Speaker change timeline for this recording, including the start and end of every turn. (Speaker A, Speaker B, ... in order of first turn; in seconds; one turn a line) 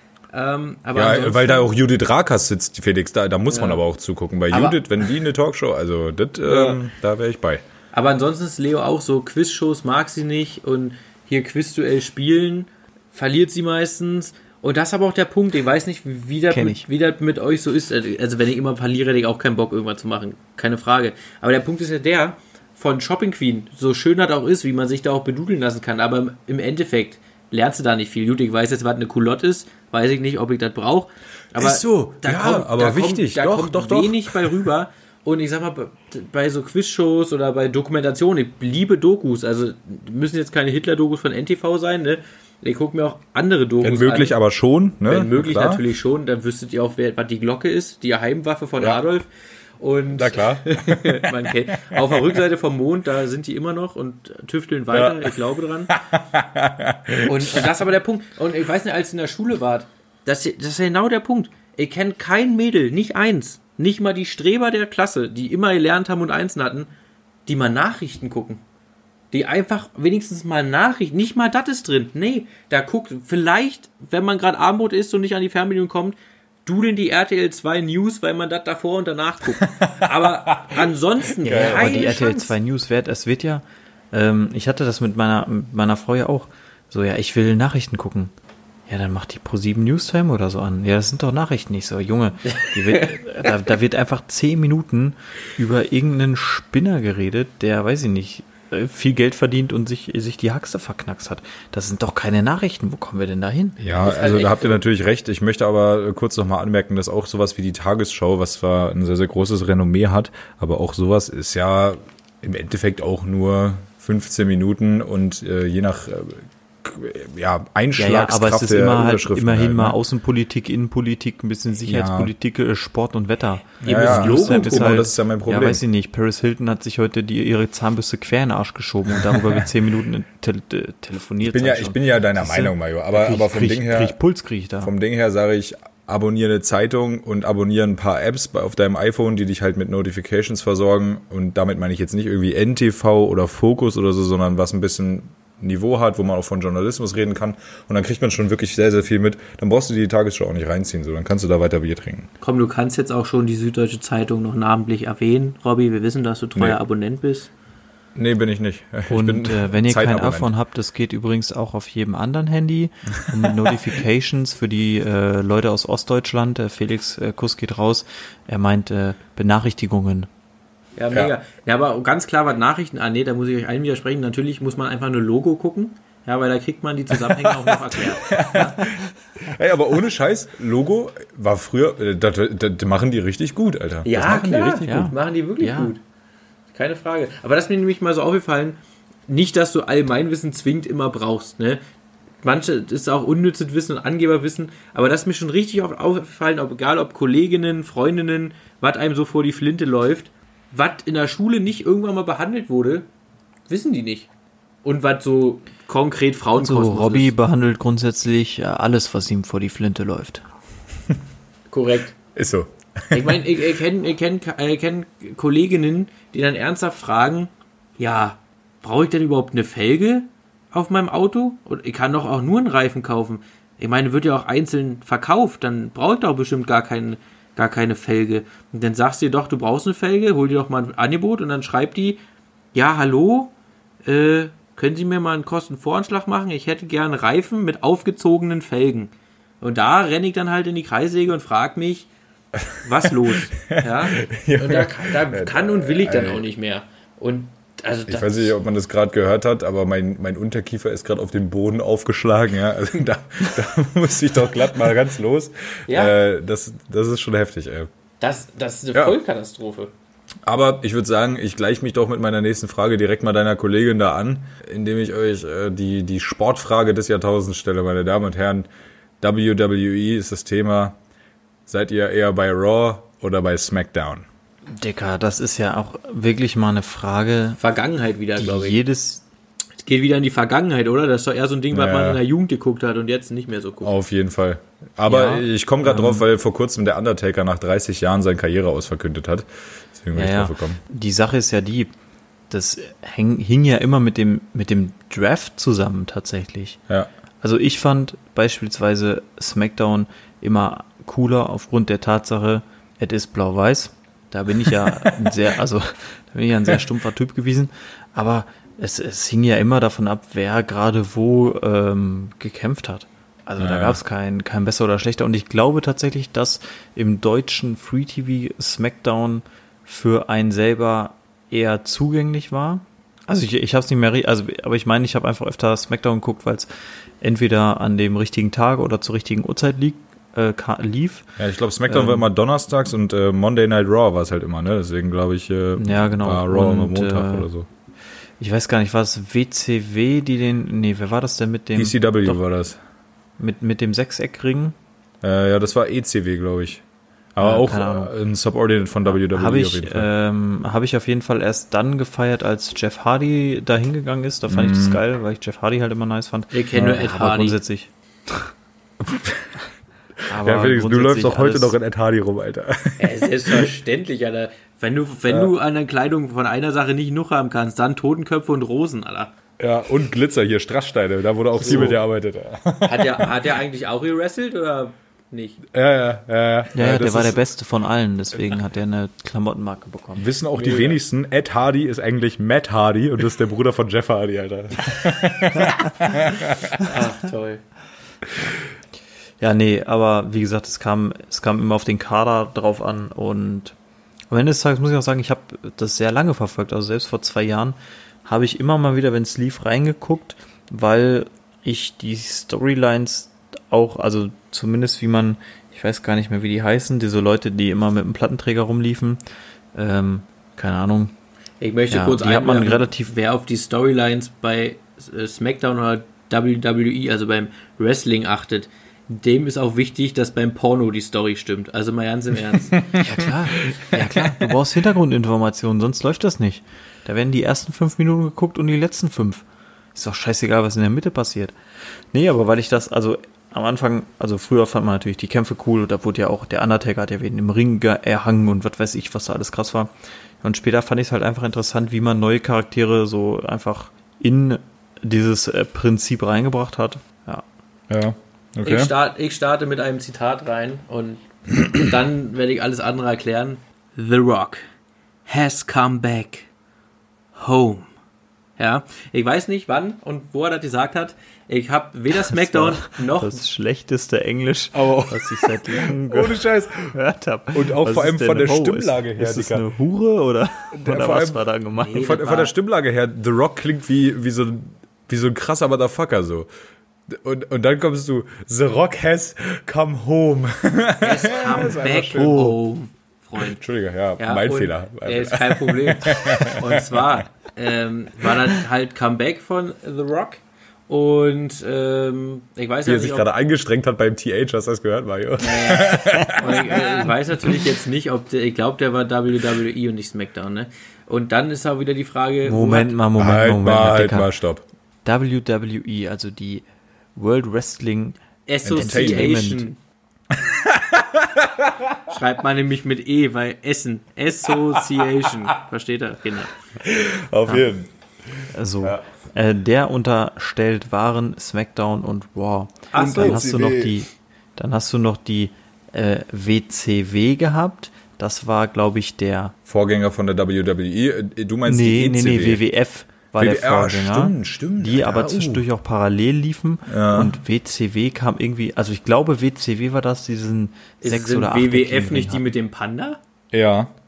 Speaker A: 0.3-1.7
Speaker B: 0.9-7.6
Speaker A: 3.5-3.8
Speaker A: 4.5-5.1
Speaker A: 6.5-6.8
Speaker A: 7.9-44.3
Speaker C: 16.5-16.9
Speaker B: 31.6-34.7
Speaker B: 43.8-45.8
Speaker A: 45.1-49.3
Speaker A: 49.8-56.0
Speaker B: 50.1-52.4
Speaker B: 54.9-55.4
Speaker B: 55.9-57.7
Speaker A: 57.2-66.9
Speaker A: 67.5-68.6
Speaker A: 69.3-82.5
Speaker B: 79.6-80.8
Speaker C: 81.4-88.3
Speaker B: 81.5-82.0
Speaker C: 88.9-103.8
Speaker A: 92.9-93.2
Speaker B: 103.8-120.0
Speaker A: 104.0-104.8
Speaker C: 118.0-134.9
Speaker B: 121.8-122.3
Speaker A: 123.8-125.0
Speaker B: 123.8-125.8
Speaker B: 129.3-129.6
Speaker B: 131.4-134.2
Speaker B: 134.8-152.3
Speaker A: 152.4-157.5
Speaker B: 158.2-160.5
Speaker C: 159.1-170.3
Speaker A: 171.0-178.8
Speaker B: 177.1-184.9
Speaker A: 184.1-186.0
Speaker C: 184.8-185.9
Speaker A: 186.7-188.8
Speaker A: 189.3-191.8
Speaker A: 192.4-203.1
Speaker A: 203.7-204.3
Speaker A: 204.8-207.3
Speaker C: 206.6-210.4
Speaker A: 211.7-212.2
Speaker B: 212.3-213.4
Speaker A: 213.1-232.2
Speaker A: 232.7-233.5
Speaker A: 234.1-242.1
Speaker B: 242.6-246.5
Speaker A: 242.8-248.6
Speaker B: 248.1-257.9
Speaker A: 255.9-256.1
Speaker A: 258.2-259.9
Speaker B: 260.5-268.7
Speaker B: 269.2-271.0
Speaker B: 271.7-274.3
Speaker C: 274.7-277.6
Speaker A: 277.6-278.8
Speaker C: 278.4-279.2
Speaker A: 279.8-283.9
Speaker B: 281.7-282.2
Speaker B: 283.8-290.8
Speaker C: 285.1-286.3
Speaker C: 290.1-291.9
Speaker C: 292.5-296.8
Speaker C: 297.4-326.7
Speaker B: 304.9-305.3
Speaker B: 313.6-314.0
Speaker C: 327.2-331.4
Speaker B: 331.4-337.7
Speaker C: 331.9-332.3
Speaker C: 335.8-337.5
Speaker C: 338.4-342.4
Speaker B: 341.8-342.8
Speaker C: 343.4-344.8
Speaker B: 345.2-346.8
Speaker B: 347.4-350.1
Speaker C: 347.4-348.1
Speaker C: 349.1-358.5
Speaker B: 354.5-355.0
Speaker A: 356.5-357.6
Speaker B: 359.0-359.6
Speaker C: 360.3-361.8
Speaker B: 360.4-363.7
Speaker A: 363.0-369.3
Speaker B: 369.6-373.6
Speaker C: 371.6-371.9
Speaker A: 371.6-372.0
Speaker A: 372.9-375.6
Speaker B: 375.7-377.4
Speaker C: 376.7-380.3
Speaker B: 380.2-386.9
Speaker A: 380.6-381.0
Speaker A: 386.8-387.6
Speaker C: 389.4-393.8
Speaker C: 394.3-409.2
Speaker C: 409.8-411.1
Speaker A: 411.6-422.9
Speaker C: 411.9-413.1
Speaker B: 422.7-423.3
Speaker C: 423.0-431.6
Speaker B: 424.2-424.5
Speaker C: 432.1-439.9
Speaker C: 440.4-447.4
Speaker B: 447.9-448.9
Speaker A: 448.6-454.6
Speaker A: 455.3-456.5
Speaker A: 457.4-457.9
Speaker A: 458.6-463.4
Speaker C: 462.4-472.0
Speaker B: 464.7-466.9
Speaker B: 467.5-469.7
Speaker B: 470.7-476.5
Speaker A: 471.8-472.5
Speaker B: 477.1-482.4
Speaker A: 481.0-483.6
Speaker C: 481.9-482.6
Speaker B: 483.4-487.1
Speaker A: 484.2-493.3
Speaker B: 492.9-497.1
Speaker A: 495.4-503.0
Speaker C: 502.4-504.3
Speaker B: 503.2-504.6
Speaker C: 505.1-506.6
Speaker C: 507.2-508.2
Speaker A: 508.5-509.8
Speaker B: 508.6-509.4
Speaker C: 508.7-509.6
Speaker B: 510.3-512.0
Speaker A: 512.1-516.6
Speaker B: 514.5-515.4
Speaker B: 516.8-519.0
Speaker C: 518.5-529.5
Speaker A: 522.9-523.4
Speaker B: 523.0-524.0
Speaker B: 529.7-532.6
Speaker C: 531.7-542.4
Speaker B: 533.4-535.7
Speaker B: 536.9-537.4
Speaker A: 541.0-543.2
Speaker B: 543.5-543.9